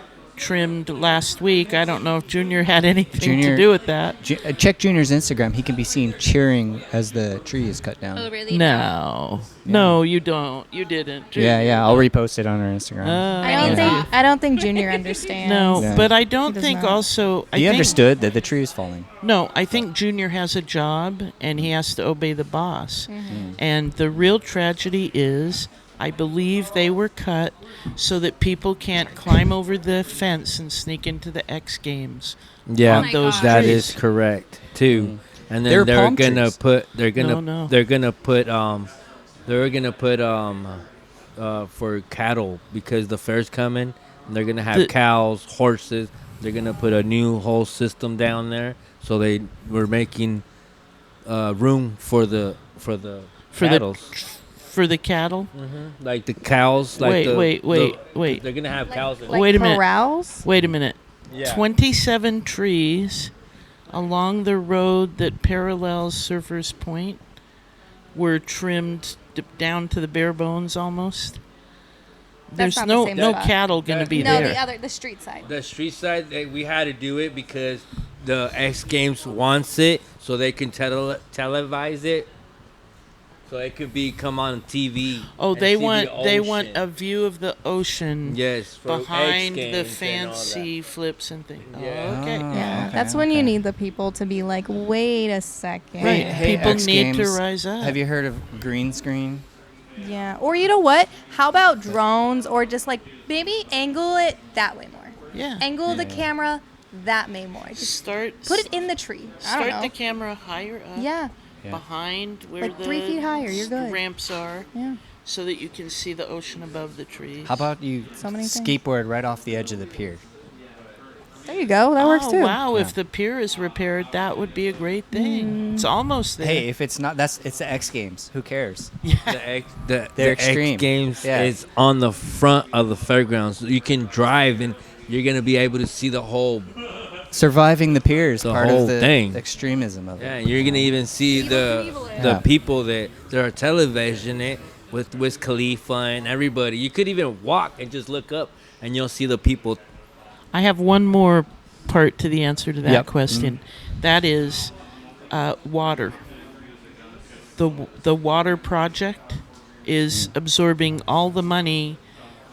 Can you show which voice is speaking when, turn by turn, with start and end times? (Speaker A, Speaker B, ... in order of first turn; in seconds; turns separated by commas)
Speaker A: 0.4-4.2, Speaker B: 3.2-3.7, Speaker B: 4.2-8.3, Speaker C: 8.1-8.9, Speaker A: 8.5-12.1, Speaker B: 9.6-10.0, Speaker B: 11.3-14.0, Speaker A: 13.0-14.1, Speaker C: 13.4-14.1, Speaker D: 13.4-17.0, Speaker A: 15.4-18.0, Speaker B: 15.8-16.1, Speaker B: 17.5-19.1, Speaker A: 19.2-34.0, Speaker D: 23.1-23.4, Speaker B: 23.3-23.6, Speaker E: 32.7-38.9, Speaker C: 32.9-33.9, Speaker B: 34.9-36.6, Speaker A: 37.1-37.7, Speaker E: 39.5-40.8, Speaker E: 41.4-50.4, Speaker E: 51.2-54.1, Speaker A: 53.5-55.5, Speaker E: 55.5-59.7, Speaker A: 57.0-58.4, Speaker D: 59.3-60.4, Speaker A: 59.3-63.3, Speaker E: 61.3-61.6, Speaker A: 63.9-67.2, Speaker A: 68.1-71.4, Speaker A: 72.5-74.6, Speaker D: 72.6-73.6, Speaker E: 73.2-74.6, Speaker D: 74.1-75.5, Speaker E: 75.4-82.3, Speaker E: 83.5-86.8, Speaker A: 85.4-92.8, Speaker E: 88.2-90.7, Speaker E: 91.7-92.2, Speaker B: 92.0-93.5, Speaker D: 92.5-96.7, Speaker B: 96.0-99.4, Speaker A: 96.0-98.0, Speaker D: 100.0-109.9, Speaker A: 105.3-105.7, Speaker B: 105.8-106.3, Speaker A: 107.7-108.7, Speaker A: 109.4-111.1, Speaker D: 110.9-111.3, Speaker A: 111.7-114.7, Speaker D: 112.6-114.0, Speaker A: 115.2-117.7, Speaker B: 117.4-120.2, Speaker D: 118.2-118.8, Speaker D: 121.5-122.6, Speaker A: 122.0-126.7, Speaker D: 125.1-125.9, Speaker B: 126.4-128.9, Speaker A: 129.0-129.4, Speaker E: 129.2-136.7, Speaker B: 130.1-131.5, Speaker B: 137.3-140.8, Speaker E: 138.4-139.4, Speaker E: 140.2-149.8, Speaker C: 141.4-142.2, Speaker B: 142.2-142.4, Speaker A: 150.5-154.7, Speaker B: 152.8-153.6, Speaker A: 155.3-156.2, Speaker A: 157.6-162.0